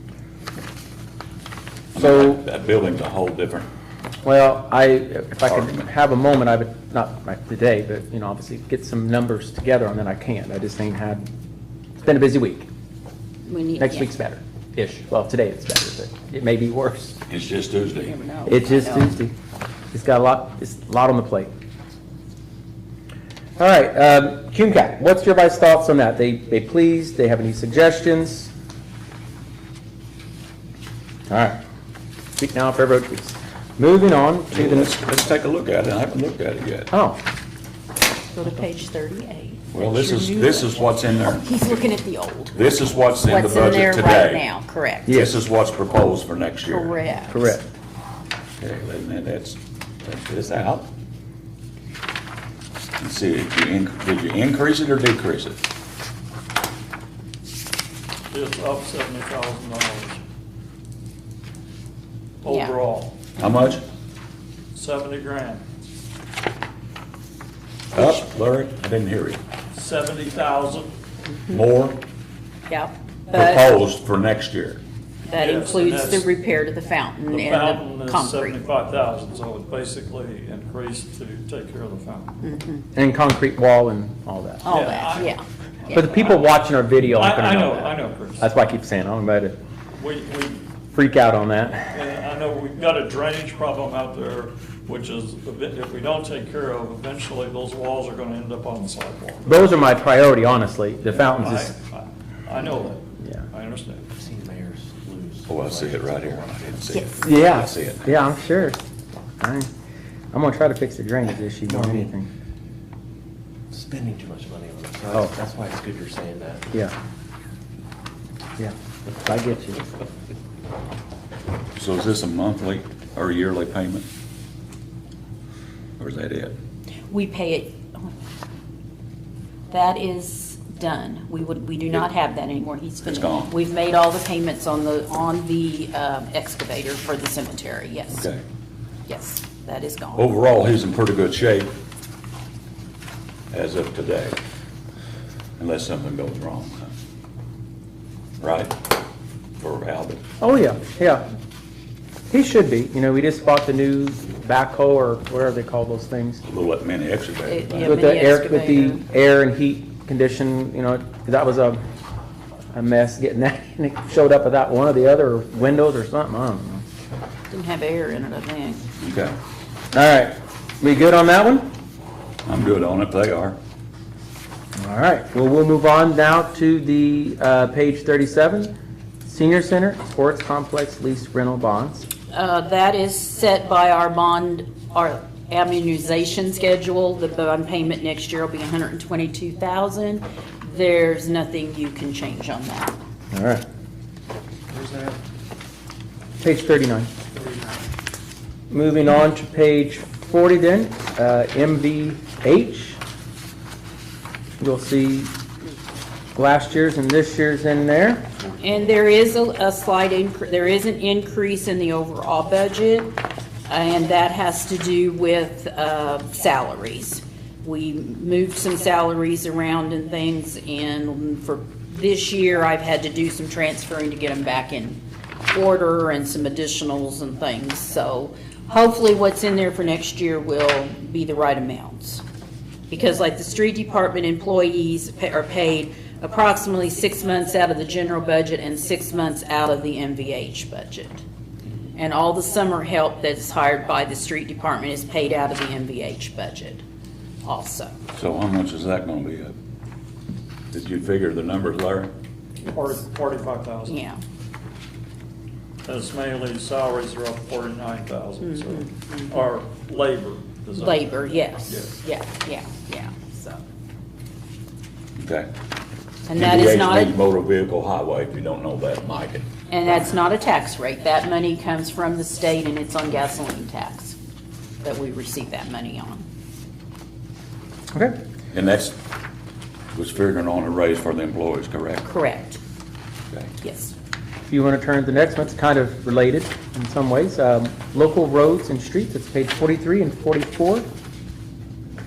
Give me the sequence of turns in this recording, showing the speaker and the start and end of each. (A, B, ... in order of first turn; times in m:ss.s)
0:01.9-0:03.7 A
0:02.0-0:02.4 B
0:04.2-0:11.3 B
0:05.5-0:05.9 A
0:12.0-0:12.7 B
0:13.5-0:14.1 C
0:13.8-0:17.2 B
0:17.3-0:18.1 A
0:18.0-0:19.2 C
0:18.5-0:19.3 B
0:19.9-0:21.5 B
0:23.6-0:28.5 B
0:31.3-0:31.6 B
0:32.4-0:35.0 B
0:34.5-0:36.9 A
0:36.9-0:37.2 B
0:38.3-0:45.2 C
0:39.7-0:41.5 A
0:42.5-0:44.4 A
0:45.1-0:47.0 A
0:46.7-0:47.6 C
0:47.3-0:47.6 B
0:48.6-0:50.9 A
0:53.0-0:55.6 A
0:58.3-1:00.2 D
1:02.4-1:03.2 D
1:02.5-1:02.8 C
1:03.4-1:03.8 A
1:04.7-1:05.6 D
1:07.9-1:09.4 A
1:09.8-1:10.9 D
1:11.5-1:12.0 A
1:12.7-1:13.8 C
1:13.3-1:14.8 A
1:15.3-1:18.6 C
1:15.3-1:16.3 D
1:17.3-1:22.3 D
1:22.4-1:22.9 C
1:23.0-1:24.8 B
1:24.6-1:26.1 C
1:24.7-1:25.4 D
1:25.9-1:28.6 D
1:25.9-1:29.6 B
1:29.9-1:30.7 D
1:30.9-1:31.9 B
1:31.9-1:39.6 D
1:39.4-1:41.7 B
1:41.1-1:44.1 D
1:44.2-1:46.8 E
1:45.5-1:48.3 A
1:46.9-1:47.2 C
1:47.2-1:48.8 B
1:49.4-1:49.7 B
1:50.3-1:52.3 B
1:51.7-1:52.1 E
1:53.7-1:56.7 E
1:58.6-1:59.9 B
2:01.8-2:04.1 A
2:06.0-2:06.6 A
2:07.1-2:08.1 C
2:09.7-2:18.3 C
2:13.0-2:13.5 A
2:18.1-2:18.4 A
2:19.1-2:20.3 C
2:20.2-2:21.7 A
2:23.5-2:24.4 A
2:25.6-2:26.9 A
2:28.4-2:28.9 A
2:29.6-2:30.2 A
2:30.4-2:31.2 B
2:32.3-2:36.4 B
2:36.4-2:38.1 A
2:37.5-2:39.0 C
2:37.8-2:41.8 B
2:42.7-2:46.8 B
2:47.5-2:48.9 C
2:49.0-2:49.4 A
2:49.9-2:51.7 B
2:52.5-2:53.6 A
2:54.8-2:58.7 B
2:59.3-3:02.1 B
3:02.3-3:13.0 C
3:13.3-3:13.6 B
3:14.7-3:15.2 E
3:16.4-3:17.1 B
3:18.7-3:23.0 B
3:24.6-3:25.3 B
3:26.4-3:28.2 B
3:28.6-3:52.2 C
3:52.9-4:01.2 C
4:02.0-4:06.8 C
4:07.4-4:07.9 C
4:08.1-4:09.5 A
4:10.7-4:12.1 A
4:12.7-4:14.0 D
4:13.9-4:14.2 C
4:15.8-4:21.9 D
4:18.4-4:19.4 C
4:20.8-4:23.6 C
4:25.2-4:25.5 A
4:26.3-4:27.2 C
4:26.4-4:29.5 A
4:29.7-4:34.2 C
4:34.8-4:36.2 C
4:38.5-4:39.0 A
4:39.9-4:42.1 A
4:42.0-4:42.6 C
4:43.6-4:43.9 C
4:44.5-4:50.9 B